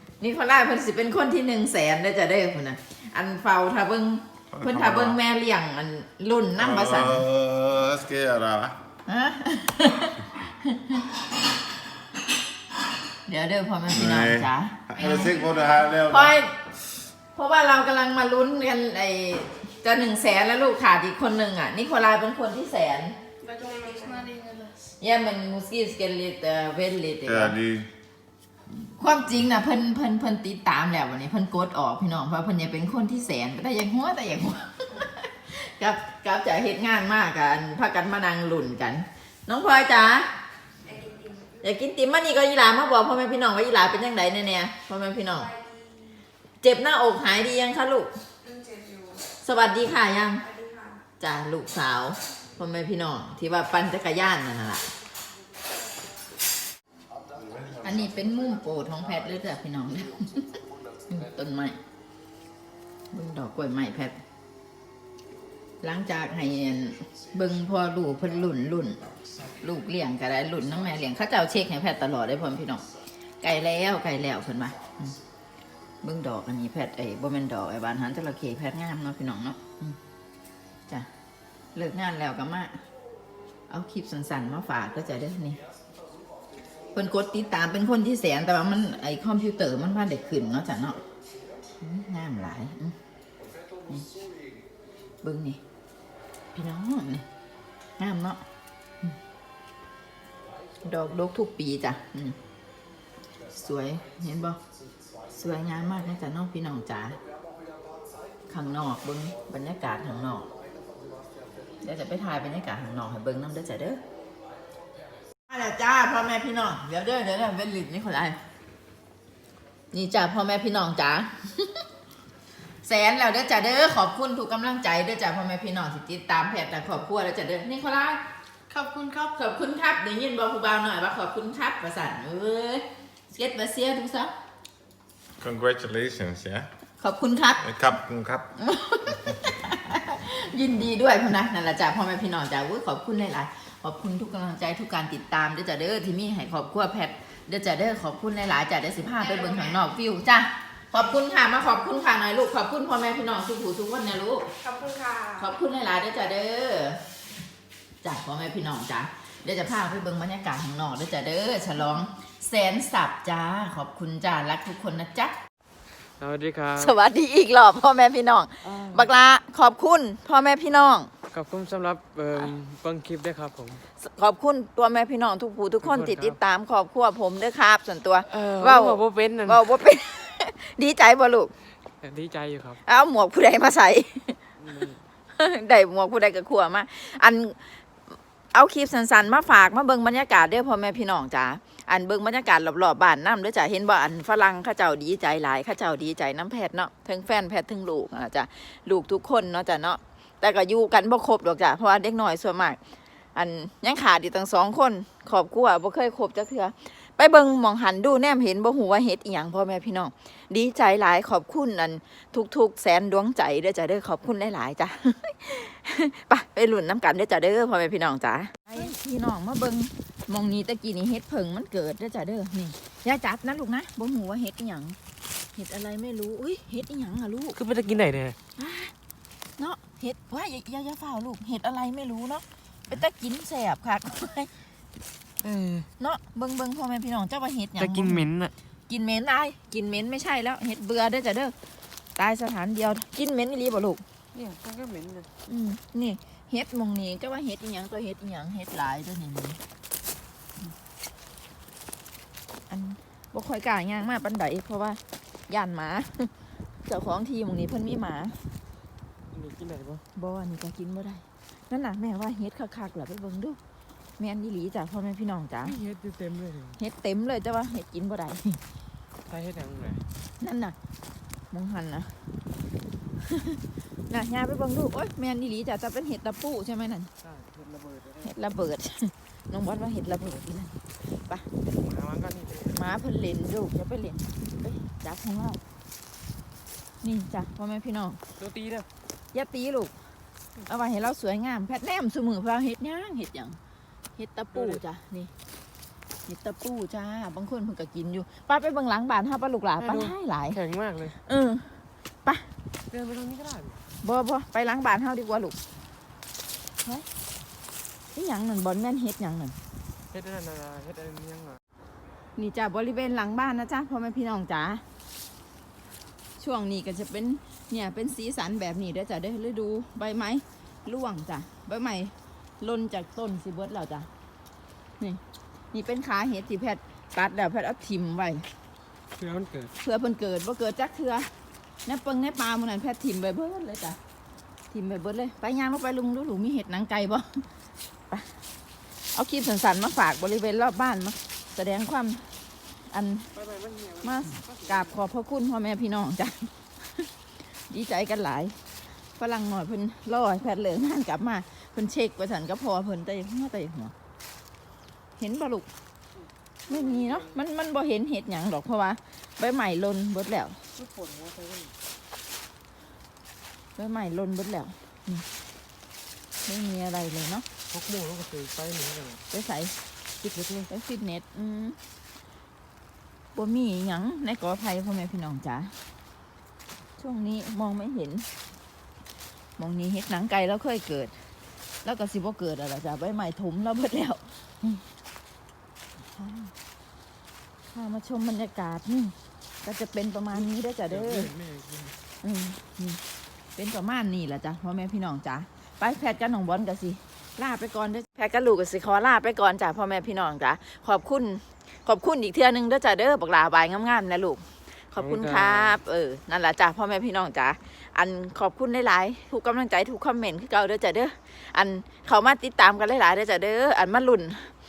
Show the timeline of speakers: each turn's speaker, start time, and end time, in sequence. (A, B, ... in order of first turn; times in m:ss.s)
0:00.2-0:07.2 A
0:04.5-0:05.2 B
0:06.6-0:08.8 B
0:09.1-0:11.2 A
0:13.2-0:15.4 A
0:13.9-0:16.4 B
0:16.0-0:16.5 A
0:17.3-0:23.2 A
0:23.4-0:24.7 C
0:25.0-0:27.6 A
0:27.2-0:27.9 B
0:28.8-0:40.3 A
0:40.9-0:41.6 C
0:41.6-0:45.5 A
0:45.5-0:46.0 C
0:46.6-0:48.1 A
0:48.4-0:49.2 C
0:49.4-0:50.5 A
0:50.4-0:51.0 C
0:51.2-0:54.8 A
0:57.6-1:01.8 A
1:03.1-1:04.2 A
1:05.8-1:09.0 A
1:09.6-1:12.8 A
1:13.4-1:15.2 A
1:16.0-1:20.0 A
1:21.7-1:22.8 A
1:23.7-1:25.6 A
1:26.9-1:31.0 A
1:31.8-1:32.9 A
1:35.2-1:35.6 A
1:36.5-1:37.2 A
1:38.0-1:38.4 A
1:40.8-1:42.4 A
1:43.5-1:44.6 A
1:45.3-1:47.2 A
1:48.5-1:50.5 A
1:51.8-1:54.0 A
1:55.5-1:58.4 A
1:59.9-2:01.8 A
2:02.8-2:14.3 A
2:15.4-2:16.7 B
2:17.0-2:17.7 A
2:17.6-2:18.5 B
2:18.6-2:34.5 A
2:29.2-2:29.8 C
2:34.6-2:35.5 C
2:35.4-2:37.0 A
2:38.0-2:45.4 A
2:46.2-2:46.9 D
2:46.8-2:51.1 A
2:48.6-2:49.1 D
2:51.3-2:53.8 D
2:54.0-3:01.5 A
2:55.8-2:56.4 D
2:58.2-2:59.6 D
3:02.0-3:02.8 D
3:02.8-3:04.4 A
3:04.6-3:05.0 D
3:05.3-3:07.6 A
3:08.5-3:22.8 A
3:23.3-3:45.0 A
3:45.5-3:47.6 A
3:47.5-3:48.4 D
3:48.6-3:48.9 A
3:49.6-3:54.5 A
3:55.4-3:55.9 D
3:56.0-3:58.3 A
3:57.8-3:58.5 D
3:58.9-4:01.5 A
4:02.2-4:04.0 A
4:04.3-4:05.3 D
4:05.5-4:09.6 A
4:12.7-4:18.4 A
4:19.3-4:20.0 D
4:20.1-4:23.6 A
4:24.2-4:25.8 A
4:25.6-4:26.8 D
4:26.8-4:28.6 A
4:29.3-4:30.0 D
4:30.4-4:30.8 A
4:31.5-4:32.2 A
4:33.2-4:37.1 A
4:37.2-4:38.3 D
4:38.2-4:41.5 A
4:41.6-4:43.0 D
4:42.7-4:45.6 A
4:47.0-4:48.2 A
4:48.4-4:48.9 D
4:49.3-4:49.9 A
4:50.6-4:53.6 A
4:54.2-4:55.3 A
4:54.5-4:54.8 D
4:56.3-5:00.6 A
4:59.8-5:01.2 D
5:01.2-5:02.5 A
5:02.9-5:03.8 D
5:04.0-5:05.6 A
5:08.1-5:09.6 A
5:10.1-5:11.6 D
5:12.4-5:14.8 A
5:16.4-5:24.1 A
5:25.7-5:28.5 A
5:29.2-5:29.7 D
5:29.8-5:31.3 A
5:31.8-5:34.0 A
5:34.7-5:37.5 A
5:39.0-5:42.3 A
5:42.9-5:43.3 A
5:43.3-5:45.0 D
5:44.0-5:48.6 A
5:49.1-5:53.9 A
5:55.2-5:55.7 A
5:56.7-5:57.3 D
5:56.7-6:00.6 A
6:00.8-6:01.7 D
6:03.8-6:05.2 A
6:06.4-6:07.4 A
6:07.7-6:09.2 D
6:09.3-6:09.7 A
6:10.2-6:10.7 D
6:10.7-6:11.8 A
6:13.3-6:15.7 A
6:17.0-6:18.3 A
6:19.6-6:21.1 A
6:21.8-6:24.8 A
6:26.1-6:26.5 A
6:27.7-6:31.3 A
6:30.3-6:32.0 D
6:32.2-6:33.0 A
6:33.6-6:54.5 A
6:45.0-6:45.8 D